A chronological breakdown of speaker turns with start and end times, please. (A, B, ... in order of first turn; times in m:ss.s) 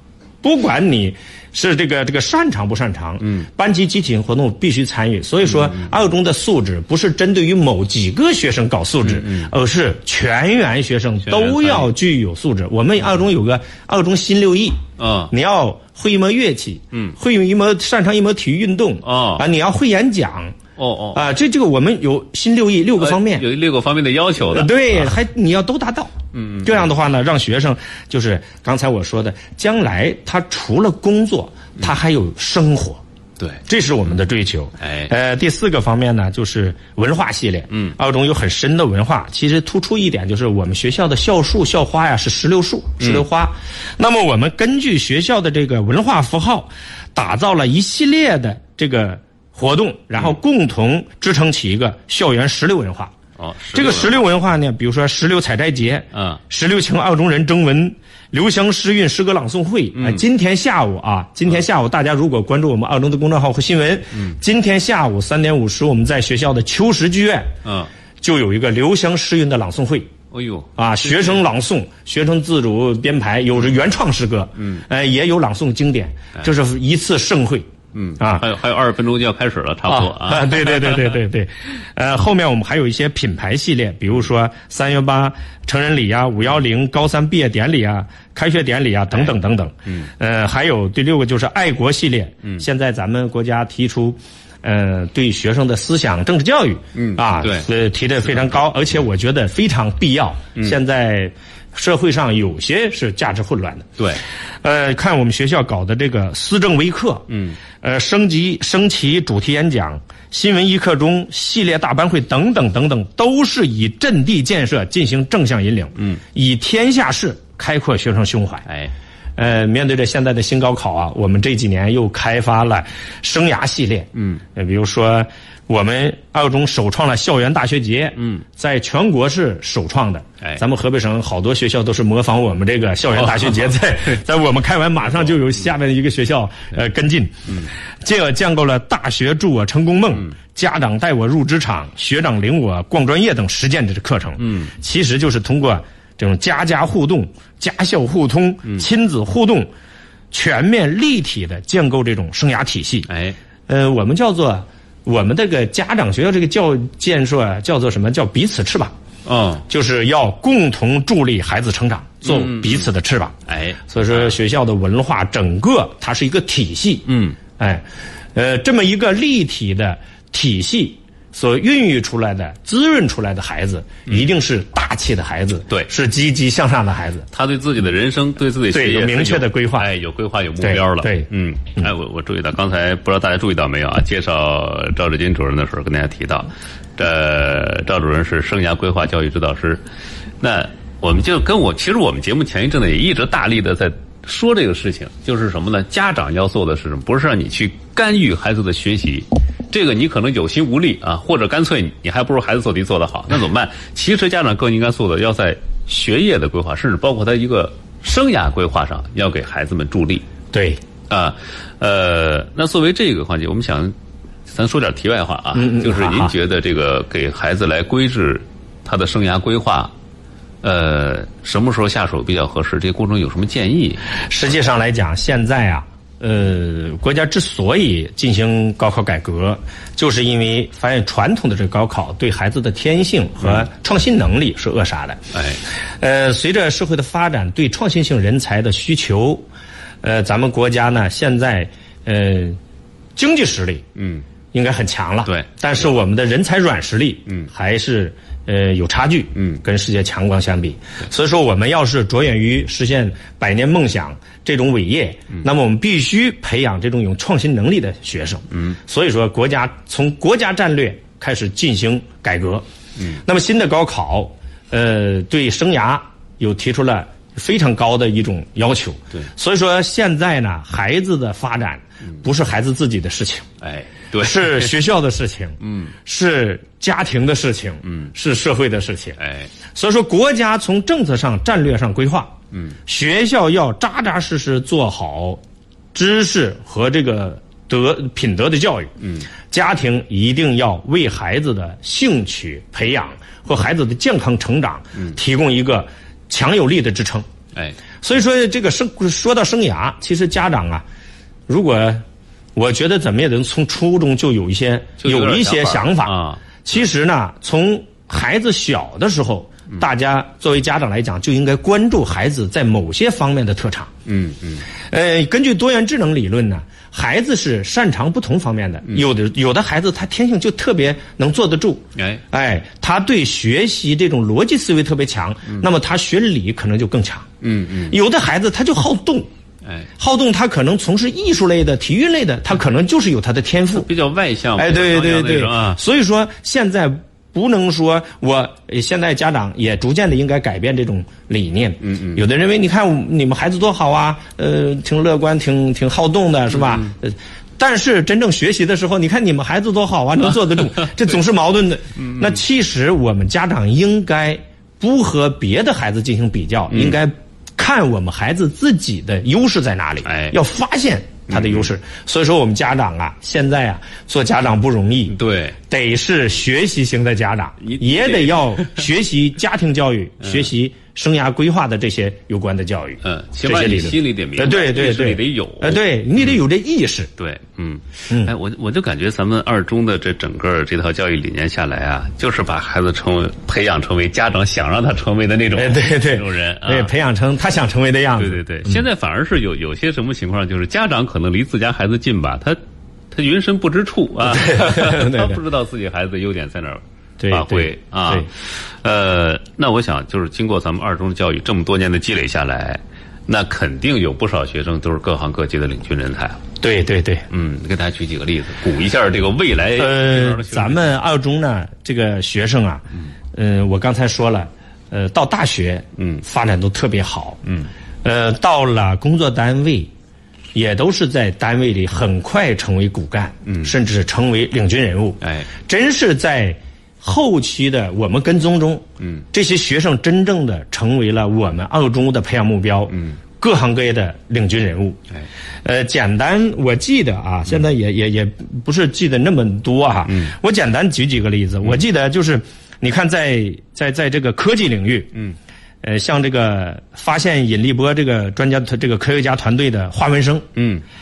0:00.4-0:20.6 A
0:05.4-0:05.9 B
0:09.0-0:09.5 B
0:11.2-0:11.9 B
0:15.0-0:15.3 B
0:19.0-0:19.4 B
0:20.8-0:21.2 B
0:21.1-0:23.5 A
0:23.0-0:25.1 B
0:24.4-0:33.0 A
0:26.3-0:26.9 B
0:33.7-0:53.1 A
0:34.8-0:35.1 B
0:43.0-0:43.2 B
0:53.4-0:54.2 B
0:53.7-1:07.5 A
0:56.1-0:56.4 B
0:59.9-1:00.2 B
1:08.2-1:10.1 A
1:10.3-1:11.4 B
1:10.8-1:17.7 A
1:17.9-1:21.2 B
1:18.2-1:18.4 A
1:19.9-1:44.0 A
1:36.9-1:37.7 B
1:44.6-1:47.3 A
1:47.3-1:47.6 B
1:47.8-1:58.7 A
1:58.7-1:58.9 B
1:59.4-2:17.5 A
2:04.2-2:04.4 B
2:13.2-2:13.7 B
2:18.0-2:29.7 A
2:24.4-2:24.7 B
2:30.3-2:33.1 A
2:33.1-2:33.4 B
2:33.7-2:38.9 A
2:39.2-2:39.6 B
2:39.7-2:43.4 A
2:42.2-2:42.9 B
2:43.5-2:44.4 B
2:43.9-2:47.8 A
2:47.1-2:47.4 B
2:48.4-2:57.3 A
2:57.3-3:09.8 B
2:58.7-2:59.9 A
3:00.6-3:01.3 A
3:10.4-3:30.2 B
3:30.5-3:30.8 A
3:31.1-3:34.0 B
3:34.5-3:39.9 B
3:35.5-3:36.3 A
3:40.6-3:44.0 B
3:44.3-3:55.2 A
3:55.3-3:55.6 B
3:56.0-3:59.5 A
4:00.0-4:02.6 A
4:03.2-4:03.9 A
4:04.0-4:04.2 B
4:04.5-4:22.6 A
4:23.2-4:33.5 A
4:33.6-4:34.7 B
4:34.2-4:39.2 A
4:35.6-4:35.9 B
4:39.2-4:39.5 B
4:39.7-4:42.3 A
4:42.8-4:45.4 A
4:45.9-4:48.9 A
4:49.0-4:49.3 B
4:49.5-4:57.3 A
4:58.0-5:00.8 A
5:01.5-5:02.0 A
5:02.6-5:13.9 A
5:05.0-5:06.4 B
5:14.1-5:14.6 B
5:14.9-5:27.3 A
5:22.0-5:22.2 B
5:27.4-5:28.0 B
5:27.9-5:29.3 A
5:29.6-5:29.9 B
5:30.0-5:33.9 A
5:33.8-5:35.8 B
5:34.6-6:05.2 A
5:41.8-5:42.2 B
5:46.5-5:46.9 B
5:56.7-5:57.0 B
6:00.0-6:00.4 B
6:01.3-6:01.7 B
6:05.1-6:05.6 B
6:05.7-6:17.1 A
6:07.6-6:08.8 B
6:10.2-6:10.5 B
6:13.0-6:16.3 B
6:17.2-6:26.9 B
6:25.6-6:28.8 A
6:28.2-6:32.6 B
6:33.1-6:46.4 B
6:34.3-6:35.4 A
6:37.2-6:38.3 A
6:46.6-6:47.3 A
6:47.3-6:50.9 B
6:49.8-6:57.4 A
6:56.0-6:56.2 B
6:58.0-6:59.9 A
7:00.5-7:15.0 A
7:03.5-7:03.7 B
7:05.2-7:05.5 B
7:15.6-7:25.2 A
7:25.8-7:30.5 A
7:30.6-7:30.8 B